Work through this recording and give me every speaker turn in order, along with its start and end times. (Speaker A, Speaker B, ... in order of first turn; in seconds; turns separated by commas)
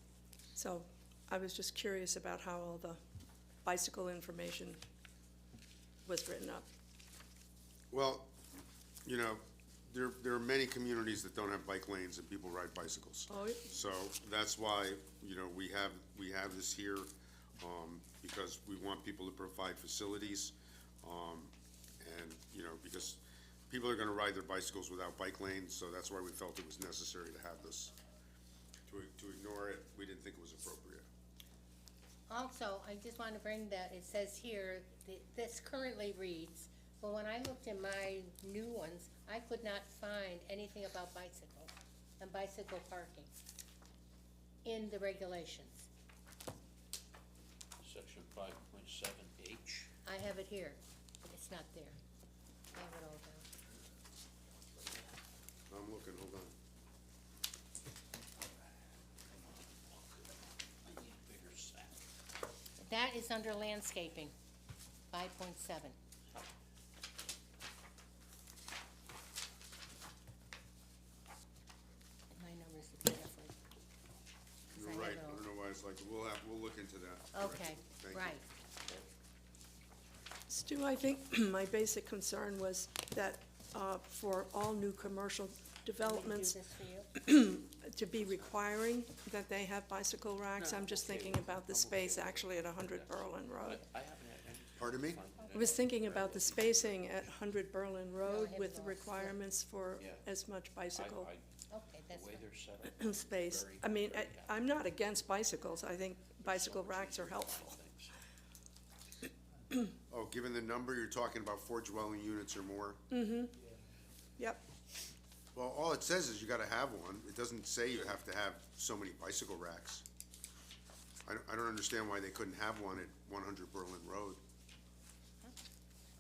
Speaker A: 0.6-3.0, Speaker A: 3.6-4.8, Speaker A: 6.0-6.7, Speaker B: 7.9-8.3, Speaker B: 9.1-27.9, Speaker A: 13.3-13.7, Speaker B: 28.9-31.1, Speaker C: 32.3-43.3, Speaker C: 44.6-45.9, Speaker D: 47.8-49.9, Speaker C: 50.1-52.0, Speaker C: 52.8-53.5, Speaker B: 55.7-56.5, Speaker D: 59.3-62.0, Speaker C: 62.8-64.3, Speaker C: 65.1-66.0, Speaker C: 72.3-73.5, Speaker C: 74.7-75.4, Speaker B: 74.7-78.4, Speaker C: 77.3-78.4, Speaker A: 80.5-86.6, Speaker C: 86.0-87.1, Speaker A: 87.2-93.8, Speaker D: 88.2-88.5, Speaker D: 90.6-97.0, Speaker B: 94.8-95.2, Speaker A: 95.5-101.3, Speaker C: 98.2-99.4, Speaker D: 100.0-100.2, Speaker D: 100.9-101.5, Speaker C: 101.7-102.4, Speaker D: 102.0-104.6, Speaker A: 102.9-107.8, Speaker D: 106.3-108.2, Speaker B: 110.1-113.0, Speaker A: 113.1-113.5, Speaker A: 114.4-114.6, Speaker B: 115.5-120.0, Speaker B: 121.3-124.4